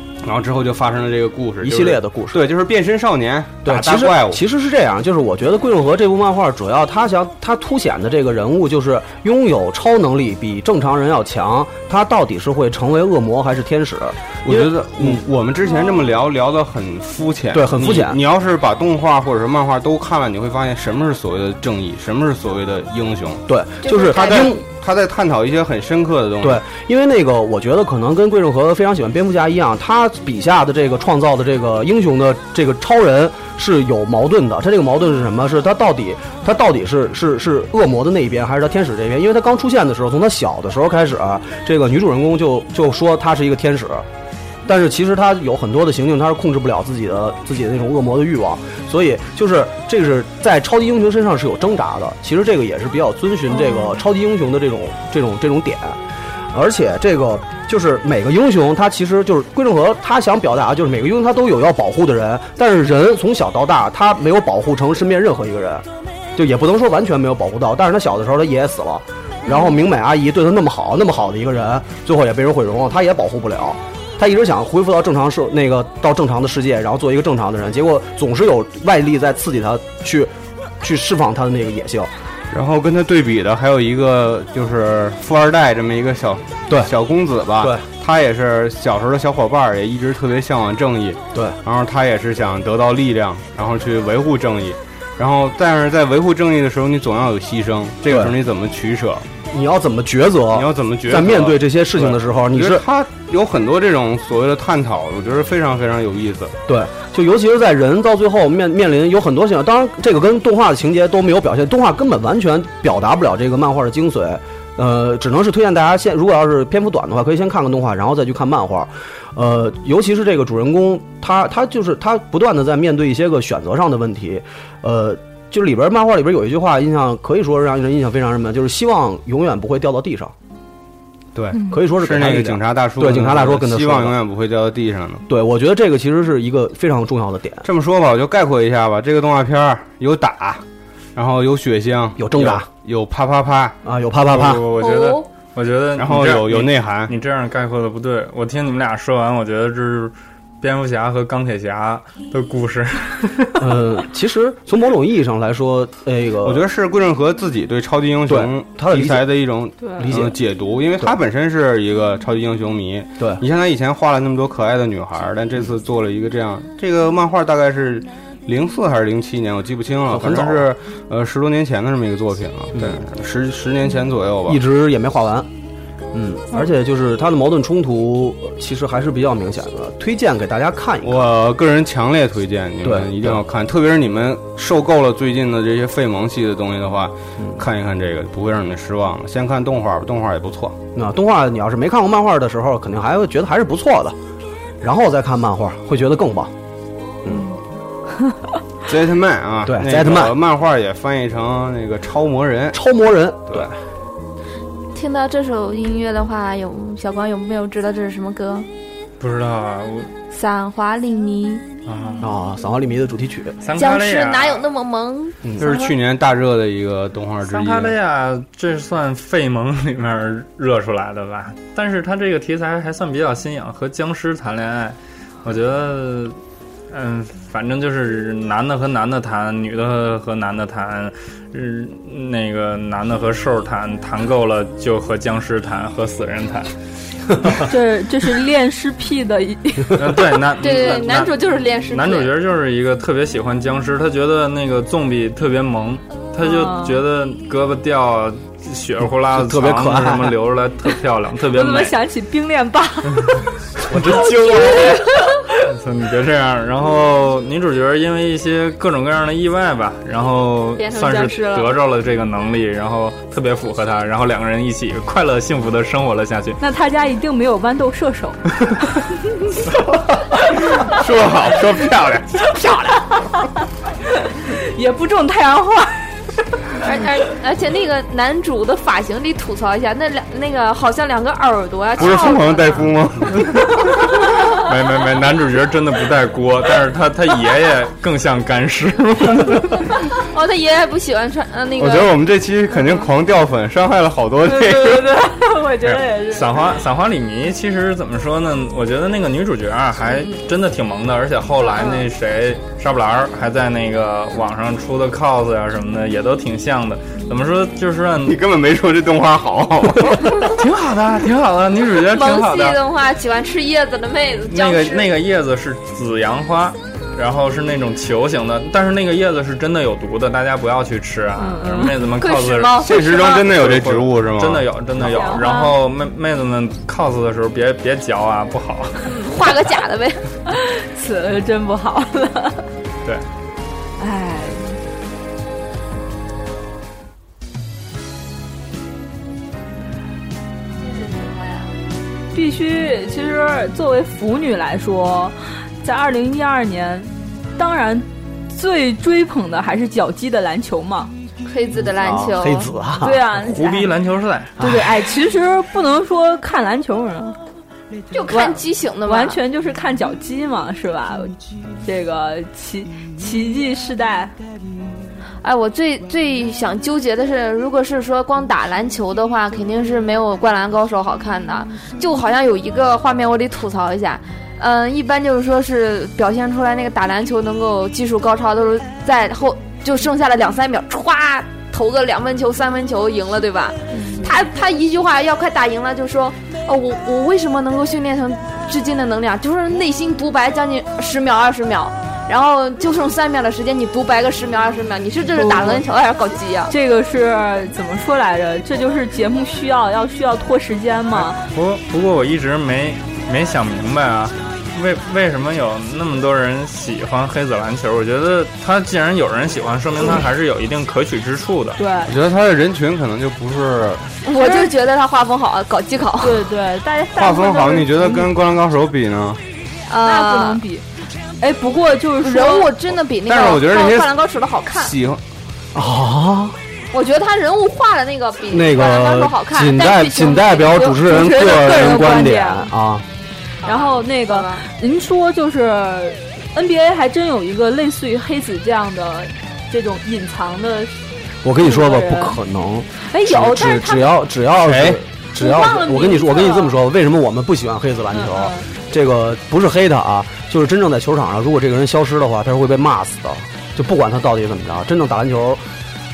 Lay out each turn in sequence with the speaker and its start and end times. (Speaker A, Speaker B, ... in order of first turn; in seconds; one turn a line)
Speaker A: 0.2-4.4
Speaker B: 1.6-2.4
Speaker B: 3.6-15.2
Speaker A: 14.4-26.6
Speaker B: 17.5-18.2
Speaker B: 23.5-24.6
Speaker C: 23.8-24.6
Speaker B: 26.4-44.0
Speaker B: 44.6-56.0
Speaker B: 56.5-82.1
Speaker A: 82.5-99.2
Speaker B: 87.6-87.8
Speaker B: 98.1-98.3
Speaker B: 99.5-102.8
Speaker A: 100.5-106.5
Speaker B: 106.7-130.3
Speaker A: 131.3-135.2
Speaker B: 131.7-134.2
Speaker B: 135.3-137.7
Speaker A: 137.6-140.6
Speaker A: 141.2-144.8
Speaker B: 142.2-142.7
Speaker B: 143.8-144.7
Speaker C: 144.8-145.2
Speaker D: 144.8-153.5
Speaker A: 145.9-147.1
Speaker B: 153.6-156.6
Speaker A: 156.4-174.6
Speaker B: 158.3-159.2
Speaker B: 160.0-160.3
Speaker B: 170.1-170.7
Speaker B: 174.5-175.5
Speaker B: 176.1-181.3
Speaker A: 181.0-190.8
Speaker B: 182.8-183.4
Speaker B: 190.9-194.2
Speaker B: 194.8-196.5
Speaker A: 198.9-202.8
Speaker B: 199.6-200.3
Speaker B: 202.7-203.7
Speaker C: 204.9-208.7
Speaker D: 209.2-210.1
Speaker C: 210.3-211.6
Speaker D: 211.8-212.3
Speaker B: 212.2-213.6
Speaker D: 213.6-214.6
Speaker C: 213.8-215.9
Speaker A: 215.6-217.9
Speaker D: 217.4-226.4
Speaker D: 226.9-236.7
Speaker E: 237.7-240.0
Speaker D: 239.9-241.3
Speaker C: 240.6-242.3
Speaker D: 241.9-251.9
Speaker E: 246.4-247.0
Speaker B: 249.3-250.4
Speaker E: 251.5-253.5
Speaker B: 253.9-254.2
Speaker E: 254.1-255.5
Speaker D: 254.4-254.9
Speaker D: 255.7-266.6
Speaker C: 260.8-261.7
Speaker E: 266.6-268.6
Speaker D: 270.8-272.5
Speaker E: 272.6-273.5
Speaker E: 274.2-276.1
Speaker C: 276.8-282.9
Speaker A: 281.9-283.8
Speaker D: 284.5-289.9
Speaker C: 290.1-292.2
Speaker A: 291.8-295.1
Speaker E: 294.4-296.5
Speaker D: 295.8-308.4
Speaker A: 308.2-310.5
Speaker D: 310.5-312.8
Speaker C: 312.0-315.1
Speaker D: 314.5-329.0
Speaker E: 321.4-321.9
Speaker C: 322.1-323.5
Speaker A: 322.8-325.2
Speaker E: 325.0-325.7
Speaker C: 329.0-330.2
Speaker E: 330.5-332.6
Speaker E: 334.0-334.8
Speaker C: 341.0-341.6
Speaker E: 342.3-351.1
Speaker C: 351.4-352.7
Speaker B: 351.8-353.2
Speaker E: 353.0-353.9
Speaker D: 353.4-354.5
Speaker E: 354.6-357.4
Speaker B: 354.6-354.9
Speaker C: 358.1-359.4
Speaker E: 358.3-364.3
Speaker C: 365.4-396.7
Speaker E: 383.9-384.3
Speaker E: 395.4-395.8
Speaker E: 396.7-401.4
Speaker D: 401.1-411.8
Speaker E: 411.8-412.1
Speaker A: 412.1-414.1
Speaker C: 414.2-416.4
Speaker E: 414.4-414.7
Speaker E: 416.2-418.3
Speaker A: 417.1-419.4
Speaker C: 419.9-420.6
Speaker E: 420.0-420.8
Speaker E: 421.4-422.7
Speaker C: 422.2-424.9
Speaker A: 423.2-424.1
Speaker A: 424.7-425.2
Speaker B: 425.7-426.6
Speaker C: 426.9-432.2
Speaker B: 428.5-433.0
Speaker E: 430.9-432.7
Speaker C: 433.6-434.6
Speaker E: 433.6-441.0
Speaker B: 441.4-455.6
Speaker E: 441.6-442.4
Speaker E: 443.0-444.2
Speaker A: 444.6-445.0
Speaker E: 445.4-446.8
Speaker E: 448.1-448.7